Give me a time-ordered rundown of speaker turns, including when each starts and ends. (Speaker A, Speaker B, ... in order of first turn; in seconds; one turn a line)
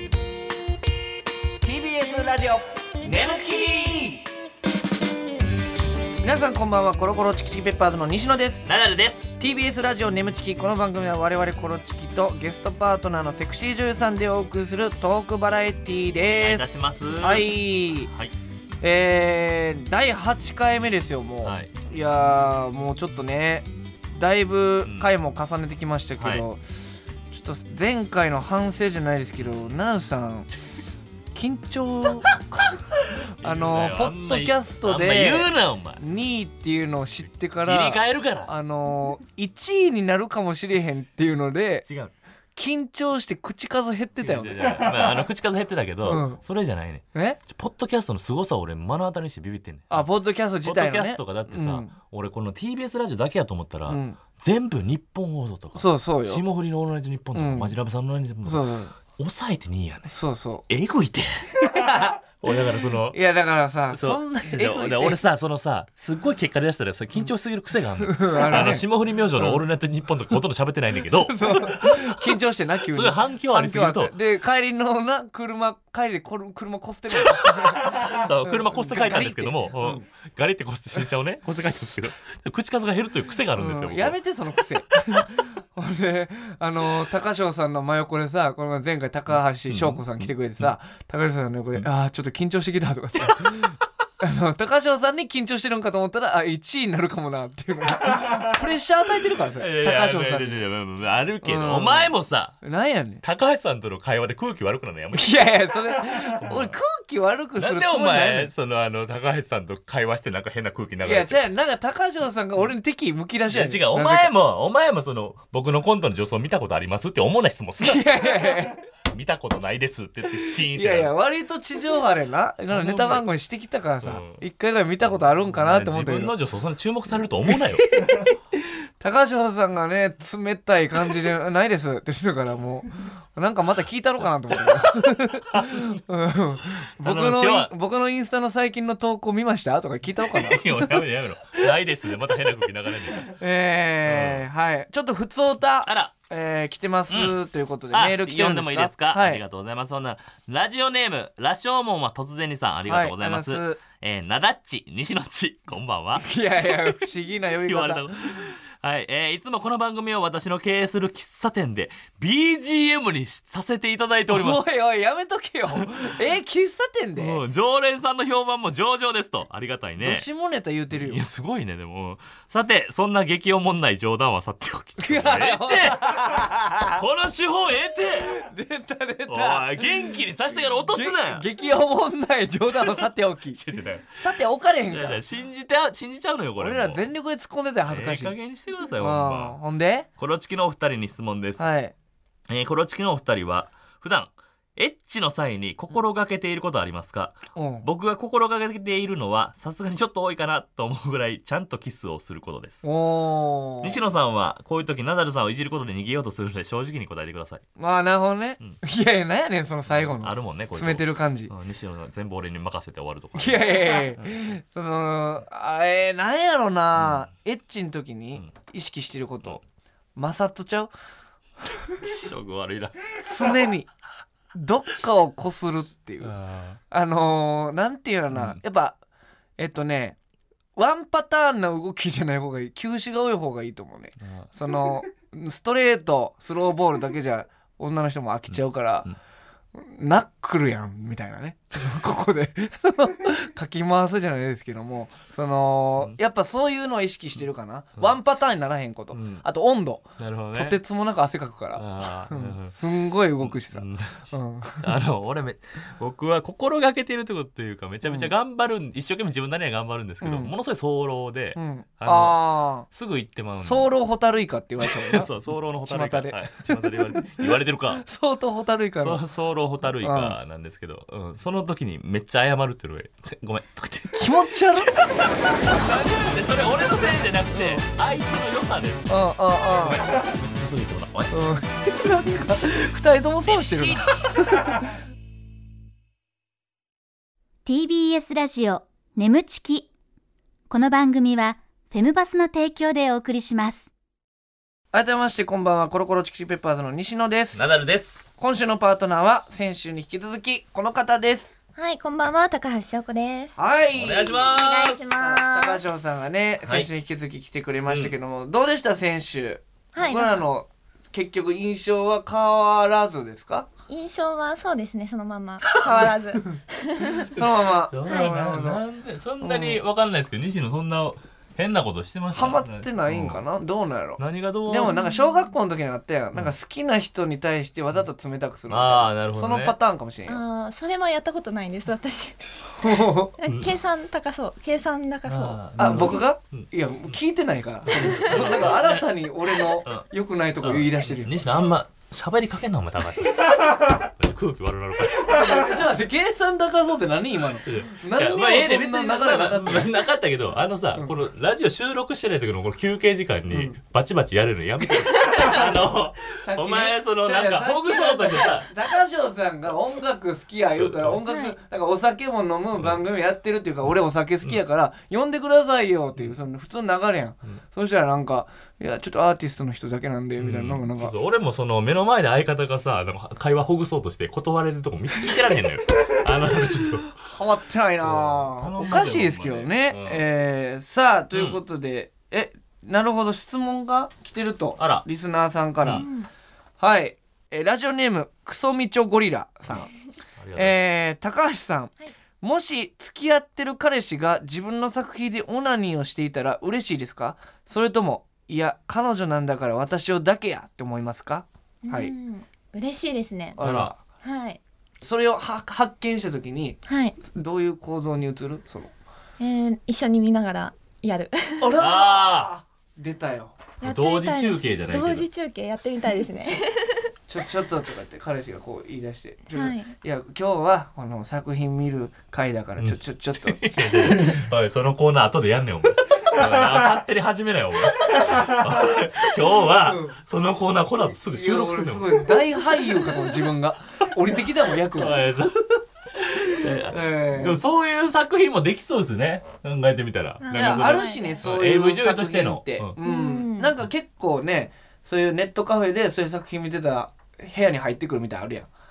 Speaker A: 1.6-4.2
Speaker A: 6.2-8.7
Speaker B: 8.7-9.3
Speaker A: 9.4-16.7
Speaker B: 16.4-17.5
Speaker A: 17.2-18.1
Speaker A: 18.8-26.6
Speaker B: 21.4-21.7
Speaker B: 24.9-25.1
Speaker B: 26.2-26.5
Speaker A: 27.3-30.5
Speaker A: 31.3-32.4
Speaker B: 32.3-36.0
Speaker A: 33.4-41.9
Speaker B: 37.6-38.5
Speaker B: 41.9-42.1
Speaker A: 42.6-44.9
Speaker B: 44.2-50.1
Speaker A: 46.1-46.4
Speaker A: 47.1-47.4
Speaker A: 49.9-51.9
Speaker B: 50.6-60.1
Speaker A: 53.9-54.2
Speaker A: 55.8-56.4
Speaker A: 57.3-57.7
Speaker A: 58.5-58.9
Speaker A: 60.1-60.7
Speaker B: 60.7-61.5
Speaker A: 61.6-65.2
Speaker B: 62.4-63.2
Speaker B: 63.9-74.1
Speaker A: 68.0-69.6
Speaker A: 71.1-80.0
Speaker B: 77.2-84.2
Speaker A: 83.6-100.6
Speaker B: 89.7-90.7
Speaker B: 93.3-93.5
Speaker B: 99.5-102.6
Speaker A: 101.4-103.2
Speaker B: 103.2-105.4
Speaker A: 105.1-108.5
Speaker B: 106.5-106.8
Speaker B: 107.6-111.4
Speaker A: 111.0-114.3
Speaker B: 113.5-121.1
Speaker A: 117.8-118.8
Speaker A: 120.4-126.3
Speaker B: 122.7-123.2
Speaker B: 124.0-124.4
Speaker B: 125.2-128.2
Speaker A: 127.5-128.3
Speaker A: 129.0-141.1
Speaker B: 134.6-136.0
Speaker B: 137.0-137.7
Speaker B: 140.3-143.3
Speaker A: 143.2-149.4
Speaker B: 144.1-144.4
Speaker B: 145.9-146.1
Speaker B: 147.1-147.4
Speaker B: 147.9-156.9
Speaker A: 152.9-153.8
Speaker A: 156.2-158.5
Speaker B: 157.7-164.6
Speaker A: 164.3-167.4
Speaker B: 165.7-166.0
Speaker B: 167.2-170.3
Speaker A: 170.0-171.2
Speaker B: 170.9-178.4
Speaker A: 175.0-177.0
Speaker A: 178.3-180.1
Speaker B: 179.3-181.5
Speaker A: 180.9-183.6
Speaker B: 182.7-183.0
Speaker B: 183.5-184.2
Speaker A: 184.2-185.2
Speaker B: 184.9-187.1
Speaker A: 186.6-188.3
Speaker B: 187.9-189.6
Speaker A: 189.0-190.1
Speaker B: 190.2-191.7
Speaker A: 191.6-191.9
Speaker B: 192.5-202.8
Speaker A: 197.6-197.9
Speaker A: 202.8-204.0
Speaker B: 203.8-207.6
Speaker A: 207.8-211.5
Speaker B: 209.9-214.3
Speaker A: 213.3-219.6
Speaker B: 217.0-217.3
Speaker A: 220.2-220.9
Speaker A: 221.7-222.0
Speaker B: 221.9-223.2
Speaker A: 223.2-223.9
Speaker A: 224.5-226.3
Speaker B: 226.2-226.8
Speaker A: 226.9-229.0
Speaker B: 228.3-228.6
Speaker A: 229.6-230.2
Speaker A: 230.8-239.1
Speaker B: 234.2-234.5
Speaker B: 238.5-239.2
Speaker A: 239.8-254.9
Speaker B: 249.1-249.4
Speaker B: 250.2-250.8
Speaker B: 251.8-252.8
Speaker B: 253.4-263.9
Speaker A: 258.1-258.3
Speaker A: 260.2-260.5
Speaker A: 261.6-262.9
Speaker A: 263.6-265.3
Speaker B: 264.8-268.0
Speaker A: 265.8-269.2
Speaker B: 269.0-279.1
Speaker A: 270.0-270.4
Speaker A: 274.1-275.1
Speaker A: 275.6-276.4
Speaker A: 277.5-277.8
Speaker A: 279.1-280.0
Speaker B: 279.7-281.4
Speaker A: 281.3-284.7
Speaker B: 283.4-284.6
Speaker C: 287.6-289.9
Speaker C: 290.7-293.9
Speaker A: 294.9-297.6
Speaker B: 297.6-298.3
Speaker A: 298.4-301.5
Speaker D: 301.8-303.6
Speaker A: 303.6-304.5
Speaker B: 303.9-305.1
Speaker D: 304.5-305.8
Speaker A: 305.1-313.7
Speaker B: 307.9-308.1
Speaker D: 309.9-310.4
Speaker D: 313.9-317.3
Speaker B: 315.7-316.1
Speaker B: 317.2-323.4
Speaker A: 317.3-318.8
Speaker D: 318.1-318.3
Speaker A: 319.4-319.8
Speaker A: 322.3-330.4
Speaker B: 324.2-324.9
Speaker D: 324.9-325.5
Speaker B: 328.7-329.8
Speaker D: 330.3-336.2
Speaker A: 332.8-333.4
Speaker B: 333.4-333.8
Speaker B: 335.3-336.7
Speaker A: 335.8-341.5
Speaker B: 337.9-340.1
Speaker B: 340.6-345.7
Speaker A: 345.1-349.9
Speaker B: 347.6-358.7
Speaker A: 353.5-353.7
Speaker A: 356.4-371.1
Speaker B: 360.8-361.2
Speaker D: 361.3-361.6
Speaker B: 370.4-377.2
Speaker A: 376.7-386.1
Speaker B: 378.0-380.2
Speaker B: 384.8-385.1
Speaker D: 385.9-386.3
Speaker A: 386.8-389.9
Speaker B: 390.4-390.8
Speaker A: 390.6-402.1
Speaker D: 401.8-403.6
Speaker A: 403.6-404.0
Speaker B: 403.6-403.9
Speaker D: 404.2-404.6
Speaker A: 405.0-408.9
Speaker D: 406.9-407.2
Speaker D: 409.4-411.7
Speaker A: 411.6-413.6
Speaker B: 411.8-412.5
Speaker D: 413.8-417.1
Speaker B: 413.8-415.3
Speaker A: 417.3-424.4
Speaker D: 419.5-419.9
Speaker B: 422.8-433.3
Speaker A: 429.8-430.2
Speaker A: 431.4-435.2
Speaker B: 434.9-435.7
Speaker B: 436.2-442.9
Speaker A: 436.6-437.6
Speaker D: 440.4-441.4
Speaker A: 440.5-448.7
Speaker D: 443.0-443.7